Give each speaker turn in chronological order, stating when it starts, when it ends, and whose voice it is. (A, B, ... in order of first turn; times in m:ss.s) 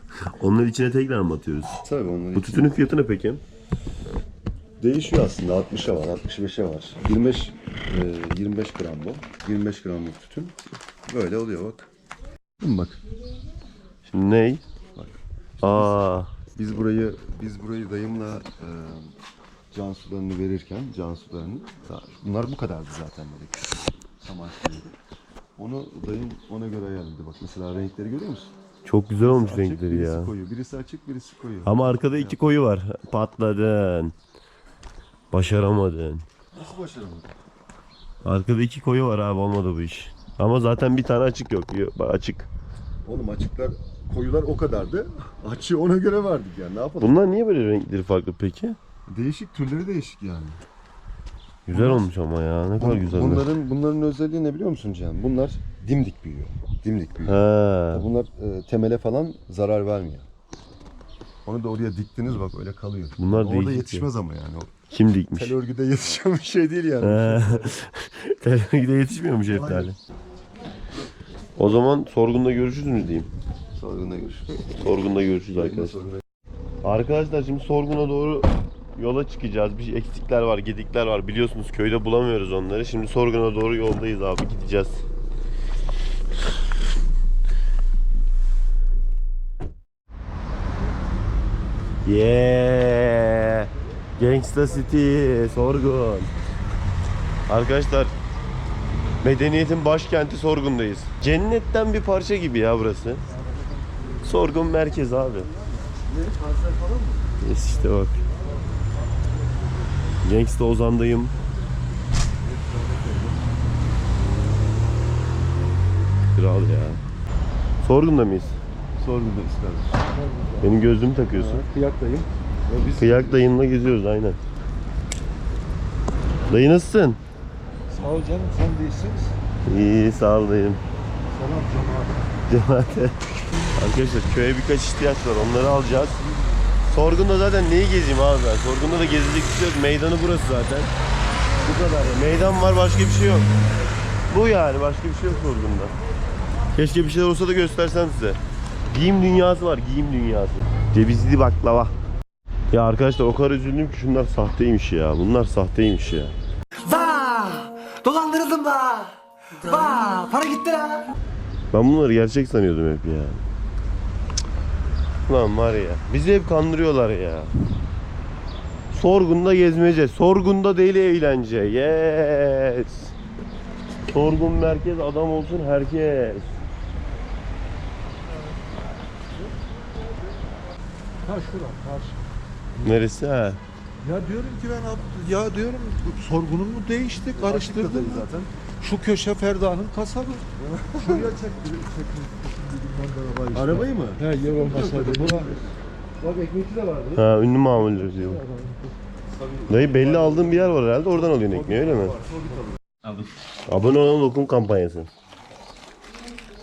0:00.4-0:01.8 A
0:01.8-0:02.8 B
0:02.3-0:03.4 A
0:04.8-0:10.5 B
0:11.0-0:11.9 B
0:12.6-0:13.0 B
0:14.0-0:14.6 A
0:14.9-0:16.0 B
0:15.6-0:16.3 A
0:16.5-0:19.1 B
0:19.7-0:24.9 B
0:25.6-0:28.5 B
0:28.8-0:30.3 A
0:29.2-0:32.4 B
0:31.6-0:34.1 A
0:35.3-0:36.2 A
0:36.5-0:37.3 B
0:38.2-0:42.5 A
0:43.0-0:47.2 B
0:47.0-0:48.8 A
0:49.1-0:50.6 B
0:51.7-0:53.5 A
0:51.7-0:52.1 B
0:52.8-0:57.4 B
0:57.2-0:58.1 A
0:57.9-1:00.3 B
1:01.4-1:04.7 B
1:03.2-1:04.1 A
1:04.9-1:05.5 A
1:05.3-1:07.6 B
1:07.0-1:09.9 A
1:09.5-1:09.9 B
1:11.6-1:13.3 A
1:13.8-1:14.7 B
1:14.8-1:16.0 A
1:15.5-1:16.2 B
1:16.8-1:25.0 A
1:32.0-1:36.3 A
1:37.5-1:38.1 A
1:39.2-1:43.2 A
1:44.2-1:45.5 A
1:45.5-1:47.2 B
1:47.4-1:48.2 A
1:50.2-1:51.3 A
1:52.4-1:53.5 B
1:56.3-1:57.0 A
1:57.8-1:58.6 A
1:59.0-2:00.1 B
2:00.6-2:01.6 A
2:01.3-2:03.2 B
2:03.0-2:04.4 A
2:06.5-2:07.2 A
2:08.9-2:09.2 C
2:09.6-2:10.8 A
2:11.4-2:11.8 B
2:12.5-2:13.2 A
2:13.7-2:16.2 A
2:16.8-2:20.9 A
2:21.6-2:23.5 A
2:24.3-2:25.9 A
2:26.7-2:28.4 A
2:28.9-2:31.9 A
2:32.7-2:36.4 A
2:36.8-2:41.1 D
2:41.7-2:43.4 A
2:45.2-2:47.5 A
2:48.9-2:53.1 A
2:54.1-2:56.5 A
3:01.2-3:02.2 C
3:02.8-3:03.6 A
3:04.0-3:08.2 C
3:07.3-3:08.5 B
3:08.8-3:10.4 C
3:10.6-3:11.4 B
3:11.0-3:11.8 C
3:12.3-3:15.5 C
3:13.5-3:17.2 B
3:17.2-3:18.4 A
3:19.4-3:20.4 B
3:19.7-3:22.2 A
3:22.2-3:22.6 B
3:23.7-3:25.1 A